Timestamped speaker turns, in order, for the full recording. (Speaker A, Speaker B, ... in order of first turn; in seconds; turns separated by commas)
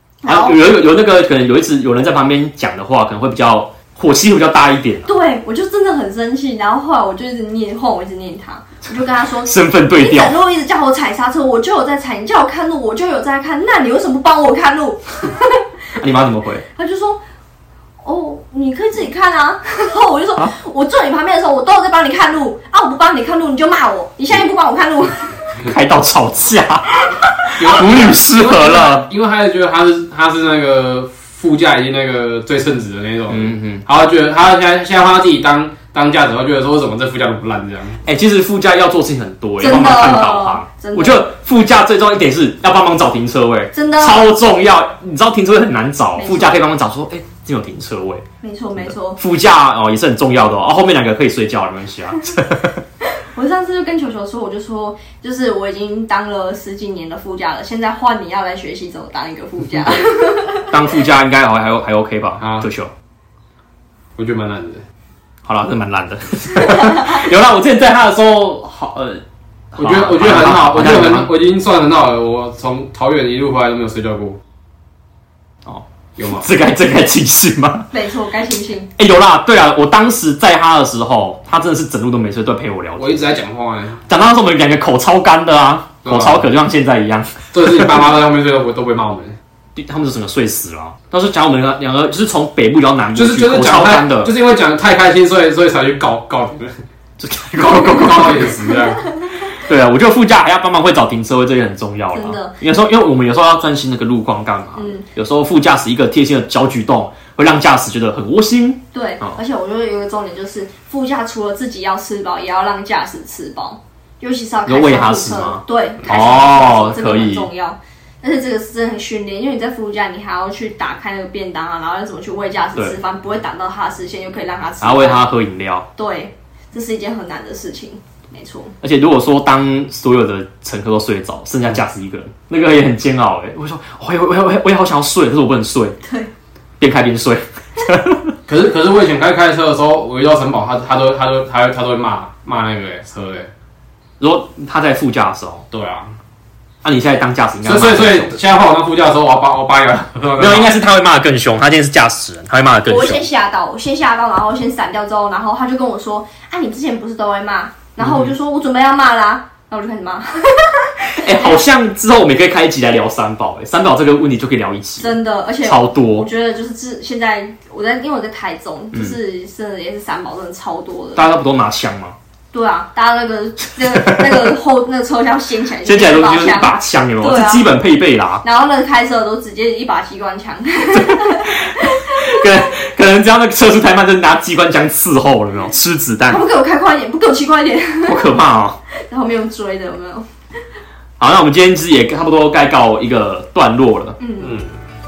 Speaker A: 0.2-0.6, Speaker B: 0.2-5.1, Speaker A: 5.0-15.6, Speaker B: 9.4-10.4, Speaker B: 16.0-16.6, Speaker A: 16.7-17.2, Speaker A: 18.0-25.3, Speaker B: 25.6-29.1, Speaker C: 27.6-38.0, Speaker B: 33.3-33.8, Speaker B: 38.0-48.2, Speaker A: 39.6-41.2, Speaker A: 43.7-44.3, Speaker A: 46.1-46.6, Speaker A: 48.4-49.2, Speaker B: 48.8-52.7, Speaker A: 53.0-60.7, Speaker B: 60.6-62.9, Speaker C: 62.4-62.7, Speaker C: 64.2-64.8, Speaker B: 65.4-69.2, Speaker B: 69.7-71.3, Speaker C: 69.8-74.4, Speaker B: 75.6-77.9, Speaker C: 76.2-76.5, Speaker A: 77.9-78.9, Speaker B: 79.0-83.4, Speaker C: 83.0-84.0, Speaker B: 84.1-87.9, Speaker C: 86.0-86.5, Speaker C: 87.5-89.4, Speaker B: 89.8-94.3, Speaker C: 93.1-96.8, Speaker B: 97.2-98.5, Speaker C: 97.6-99.0, Speaker B: 99.5-109.4, Speaker A: 102.1-102.6, Speaker A: 104.8-105.1, Speaker A: 108.9-125.3, Speaker B: 114.6-117.5, Speaker B: 124.8-125.9, Speaker A: 126.0-128.7, Speaker B: 128.8-136.0, Speaker A: 136.0-136.3, Speaker B: 136.8-138.3, Speaker C: 138.5-143.5, Speaker B: 144.2-145.6, Speaker C: 145.7-146.1, Speaker B: 146.8-148.3, Speaker C: 147.6-150.8, Speaker B: 150.4-153.2, Speaker A: 152.9-161.6, Speaker B: 158.0-158.3, Speaker B: 161.1-166.3, Speaker A: 165.0-171.2, Speaker B: 171.2-172.2, Speaker A: 172.5-177.8, Speaker B: 173.9-174.4, Speaker B: 175.8-178.4, Speaker A: 178.4-182.6, Speaker B: 180.9-186.4, Speaker A: 186.3-188.3, Speaker B: 188.0-188.8, Speaker A: 188.9-190.2, Speaker B: 191.2-194.2, Speaker A: 194.2-194.5, Speaker C: 194.4-194.7